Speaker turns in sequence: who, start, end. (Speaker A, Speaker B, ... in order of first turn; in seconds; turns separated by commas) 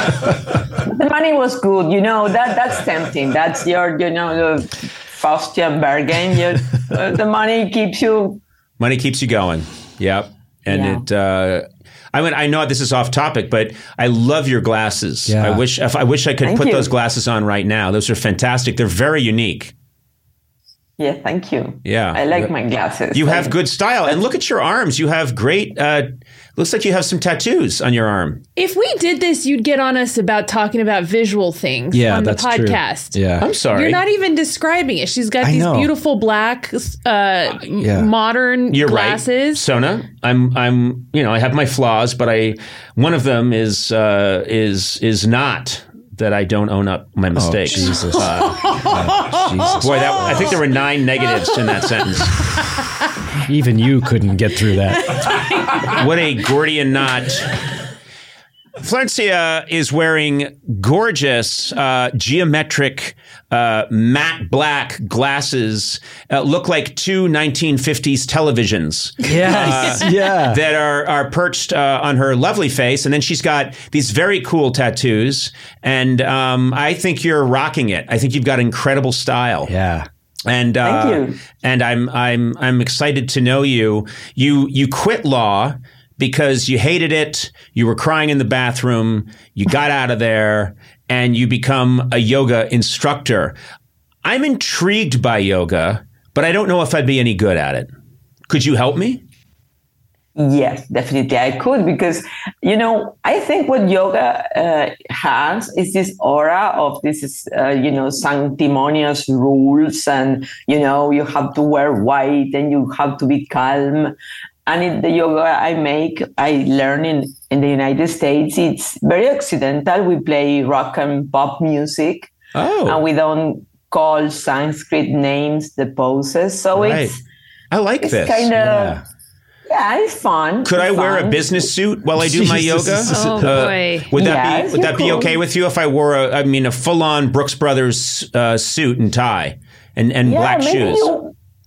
Speaker A: 0.7-8.4, Speaker B: 8.8-19.7, Speaker A: 10.7-11.0, Speaker C: 15.3-15.6, Speaker A: 16.4-16.9, Speaker A: 21.0-23.6, Speaker B: 21.8-22.5, Speaker B: 23.1-28.4, Speaker D: 28.6-39.6, Speaker C: 31.9-33.5, Speaker B: 33.4-34.0, Speaker C: 35.4-35.9, Speaker C: 37.8-38.1, Speaker B: 38.7-48.9, Speaker C: 47.3-50.6, Speaker D: 47.8-50.4, Speaker B: 49.8-52.4, Speaker D: 51.4-51.9, Speaker C: 53.4-55.3, Speaker D: 55.1-56.0, Speaker B: 55.8-57.5, Speaker B: 58.8-79.7, Speaker C: 69.2-70.6, Speaker D: 69.4-69.9, Speaker C: 79.7-80.1, Speaker B: 80.5-93.5, Speaker A: 80.8-81.4, Speaker B: 94.2-97.9, Speaker B: 98.5-99.2, Speaker A: 100.3-114.1, Speaker A: 114.7-122.3, Speaker B: 122.5-123.0, Speaker A: 122.8-127.2, Speaker B: 126.7-127.1, Speaker B: 127.7-128.5, Speaker A: 128.0-129.0, Speaker C: 128.5-129.0, Speaker A: 129.7-131.6, Speaker B: 130.6-141.1, Speaker C: 132.2-133.7, Speaker D: 133.1-134.1, Speaker A: 134.1-135.4, Speaker A: 140.2-141.3